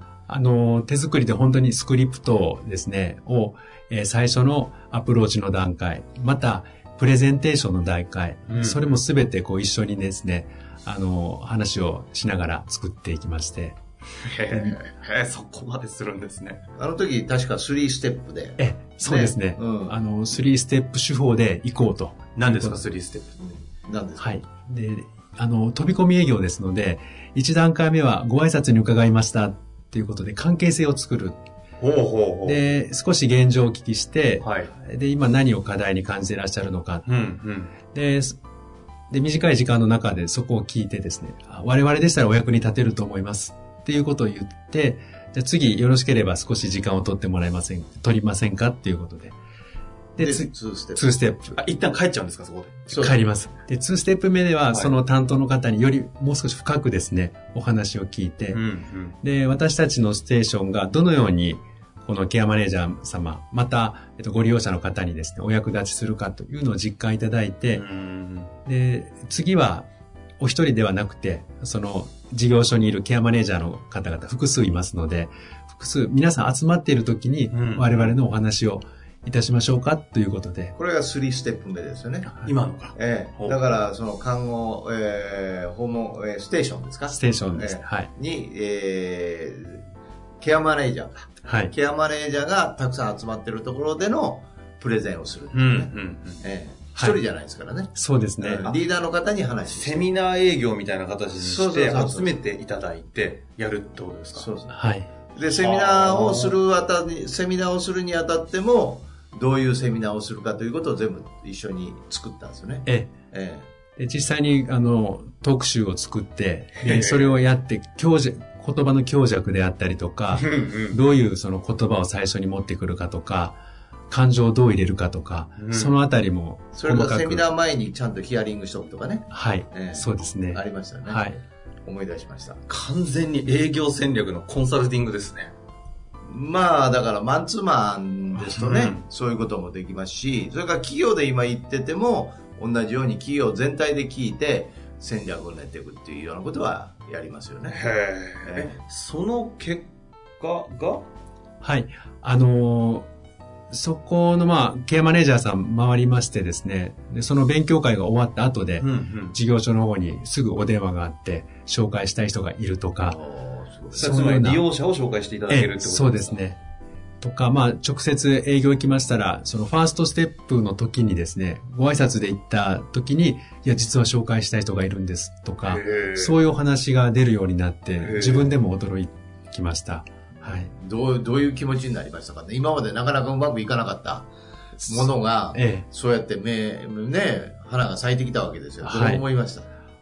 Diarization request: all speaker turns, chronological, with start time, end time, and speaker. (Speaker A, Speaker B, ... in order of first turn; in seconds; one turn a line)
Speaker A: 0.3-13.8
Speaker B: 8.5-9.0
Speaker B: 14.2-16.6
Speaker A: 14.5-14.8
Speaker C: 16.8-20.0
Speaker A: 18.6-22.8
Speaker B: 22.3-23.4
Speaker C: 23.4-24.4
Speaker A: 24.2-31.4
Speaker B: 31.8-32.6
Speaker A: 32.5-37.0
Speaker B: 34.4-34.7
Speaker B: 37.0-37.8
Speaker A: 37.9-38.4
Speaker A: 39.1-49.4
Speaker A: 50.1-51.6
Speaker C: 50.2-51.0
Speaker B: 51.5-53.1
Speaker C: 52.9-53.2
Speaker A: 52.9-58.6
Speaker B: 58.5-59.1
Speaker A: 59.2-67.8
Speaker B: 67.7-68.5
Speaker A: 68.7-69.9
Speaker A: 70.4-80.7
Speaker B: 77.5-78.2
Speaker C: 80.7-82.3
Speaker B: 82.2-83.6
Speaker C: 82.9-89.8
Speaker A: 87.1-88.1
Speaker C: 90.4-100.1
Speaker A: 91.5-91.7
Speaker B: 95.5-96.4
Speaker A: 97.9-98.7
Speaker B: 99.7-104.5
Speaker C: 101.3-102.4
Speaker C: 104.3-104.8
Speaker A: 104.7-105.1
Speaker C: 105.3-113.7
Speaker B: 105.4-106.6
Speaker A: 112.8-113.2
Speaker A: 114.0-123.6
Speaker B: 116.8-117.3
Speaker B: 120.3-121.0
Speaker A: 124.1-127.5
Speaker B: 125.6-125.9
Speaker C: 126.7-131.2
Speaker A: 129.3-131.4
Speaker C: 131.8-132.6
Speaker B: 132.7-135.5
Speaker C: 136.2-147.8
Speaker B: 138.4-139.0
Speaker B: 147.7-151.1
Speaker C: 148.4-148.8
Speaker A: 151.6-153.1
Speaker A: 153.7-163.2
Speaker B: 158.8-159.4
Speaker C: 163.0-164.2
Speaker B: 163.9-166.4
Speaker A: 163.9-164.7
Speaker A: 165.5-166.6
Speaker A: 167.2-180.7
Speaker B: 175.6-176.4
Speaker B: 178.0-178.5
Speaker C: 180.3-184.3
Speaker C: 184.8-189.7
Speaker A: 184.9-185.8
Speaker A: 188.8-189.2